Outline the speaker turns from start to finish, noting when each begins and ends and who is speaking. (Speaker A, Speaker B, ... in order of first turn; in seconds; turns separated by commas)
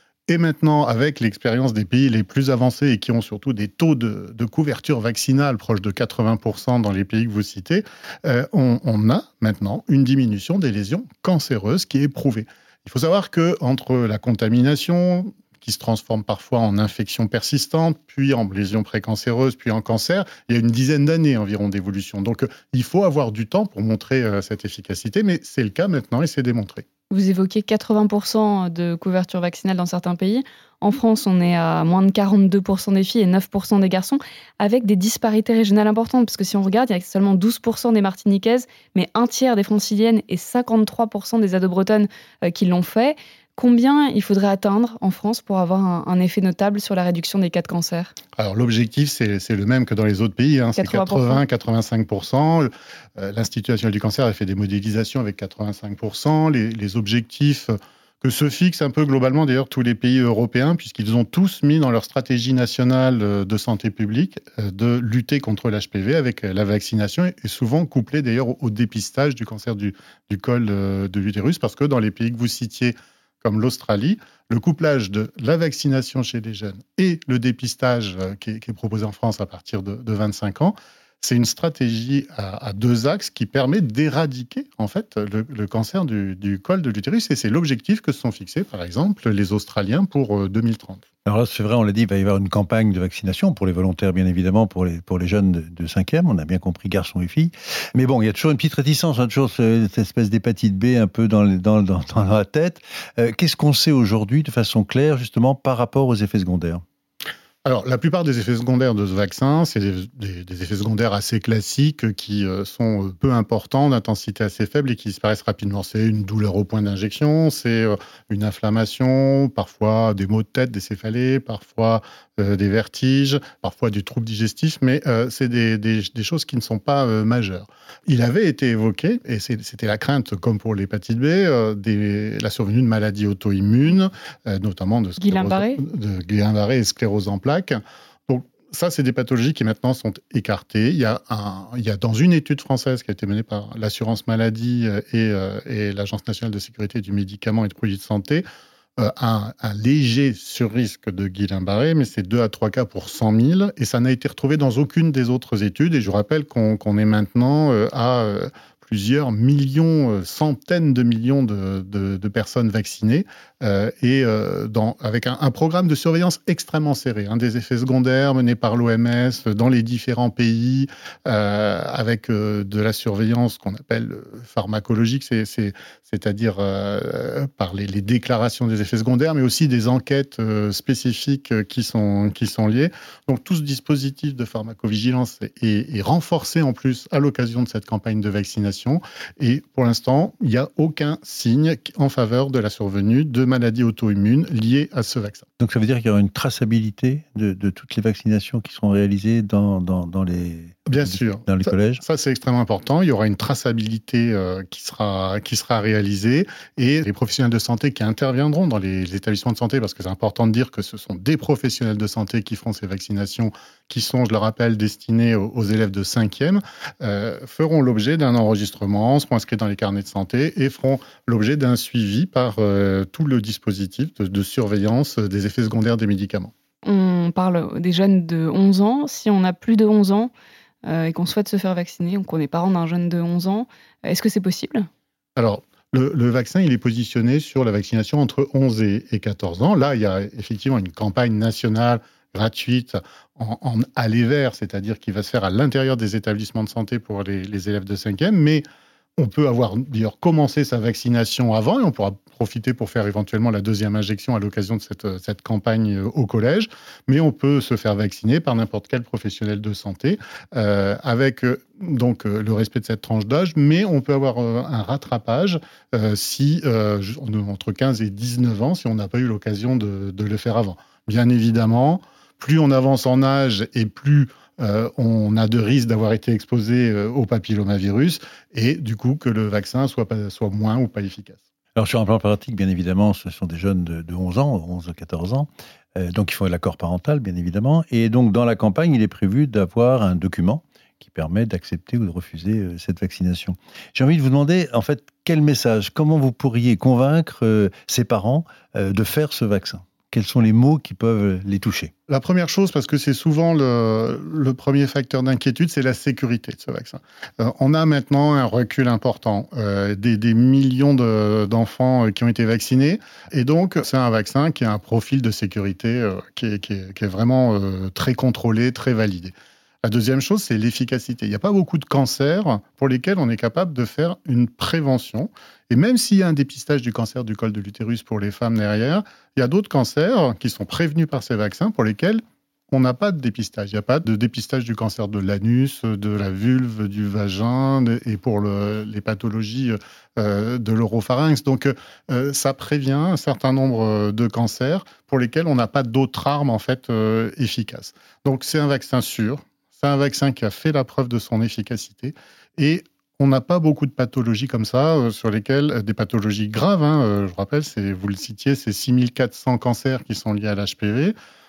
Speaker A: 0.3-26.9, Speaker B: 27.1-48.1, Speaker A: 48.4-91.0, Speaker B: 50.8-51.4, Speaker C: 91.2-106.8, Speaker A: 107.6-148.4, Speaker B: 135.2-135.8, Speaker A: 149.0-195.4, Speaker C: 195.6-202.0, Speaker A: 200.9-226.5, Speaker B: 226.8-230.3, Speaker B: 230.8-234.9, Speaker A: 235.3-248.6, Speaker A: 249.2-281.4, Speaker C: 281.8-301.9, Speaker A: 302.1-361.1